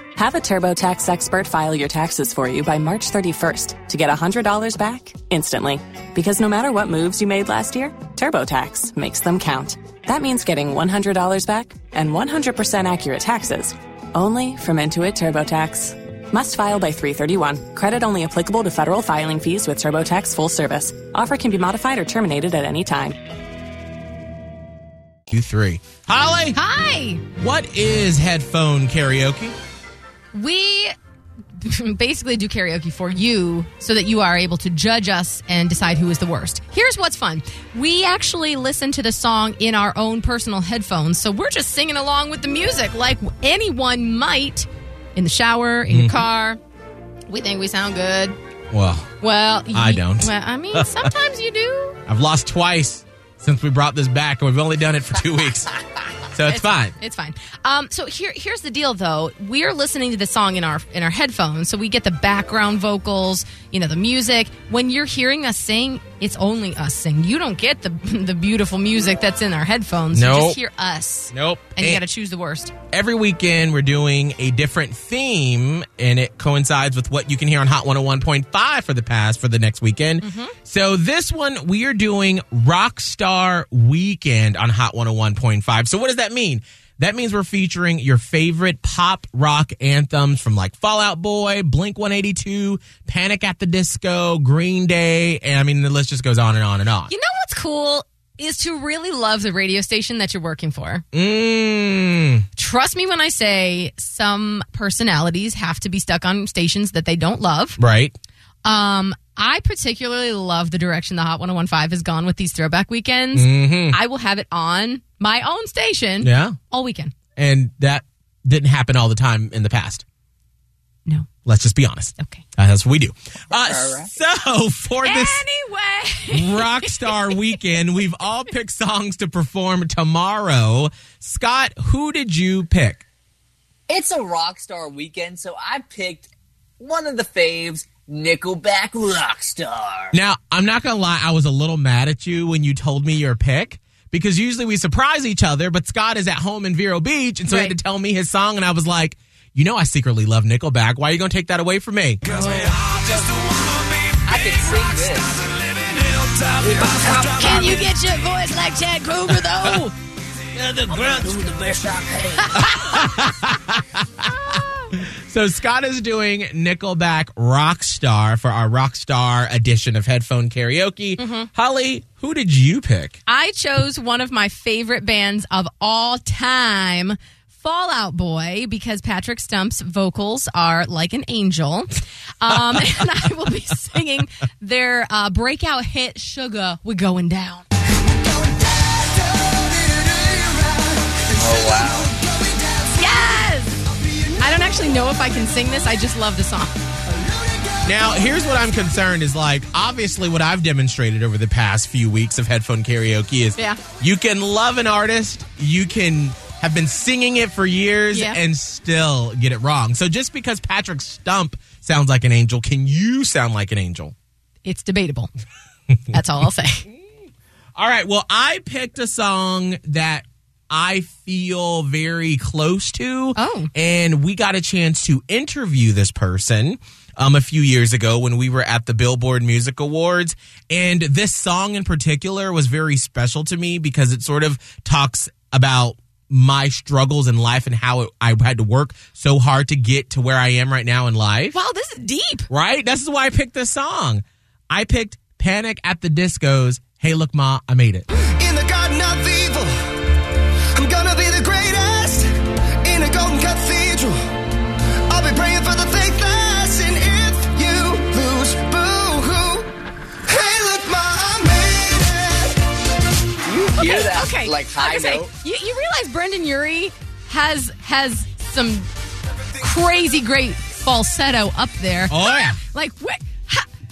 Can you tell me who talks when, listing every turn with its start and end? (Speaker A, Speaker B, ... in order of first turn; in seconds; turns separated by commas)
Speaker A: 0.1-23.1, Speaker B: 25.3-26.6, Speaker C: 26.5-27.2, Speaker B: 27.4-29.5, Speaker C: 30.3-30.9, Speaker C: 31.6-46.6, Speaker B: 45.9-46.2, Speaker C: 47.3-48.4, Speaker B: 48.7-49.1, Speaker C: 49.2-52.0, Speaker B: 49.7-50.9, Speaker B: 52.1-55.8, Speaker B: 56.3-56.9, Speaker C: 56.4-72.7, Speaker B: 70.1-70.6, Speaker B: 71.3-72.0, Speaker B: 72.9-97.1, Speaker C: 80.2-80.5, Speaker C: 97.1-101.0, Speaker B: 101.1-102.4, Speaker C: 102.5-107.8, Speaker B: 107.8-108.2, Speaker C: 108.6-117.1, Speaker B: 113.3-114.0, Speaker B: 116.2-116.6, Speaker B: 117.3-120.0, Speaker B: 121.4-125.4, Speaker D: 123.5-124.1, Speaker C: 125.0-127.6, Speaker B: 126.3-133.0, Speaker D: 133.9-140.2, Speaker B: 140.1-152.4, Speaker C: 147.5-147.7, Speaker C: 152.3-152.8, Speaker D: 152.7-153.2, Speaker D: 154.2-155.5, Speaker D: 156.6-157.8, Speaker C: 157.2-159.9, Speaker D: 160.5-162.5, Speaker C: 162.4-163.2, Speaker B: 162.6-164.3, Speaker C: 164.2-164.9, Speaker B: 164.9-173.2, Speaker C: 171.2-171.5, Speaker C: 173.3-187.6, Speaker E: 188.2-191.0, Speaker D: 191.3-192.2, Speaker E: 191.6-192.8, Speaker C: 192.9-196.7, Speaker B: 197.8-214.1, Speaker C: 208.1-208.4, Speaker C: 214.6-215.3, Speaker C: 216.1-216.8, Speaker B: 217.8-241.6, Speaker C: 223.3-223.7, Speaker C: 241.5-242.5, Speaker B: 242.5-248.1, Speaker E: 248.4-249.8, Speaker E: 250.7-252.3, Speaker E: 252.8-254.2, Speaker E: 255.1-259.7, Speaker E: 260.3-262.6, Speaker D: 263.4-265.3, Speaker C: 263.8-268.9, Speaker C: 269.6-273.6, Speaker B: 272.1-272.6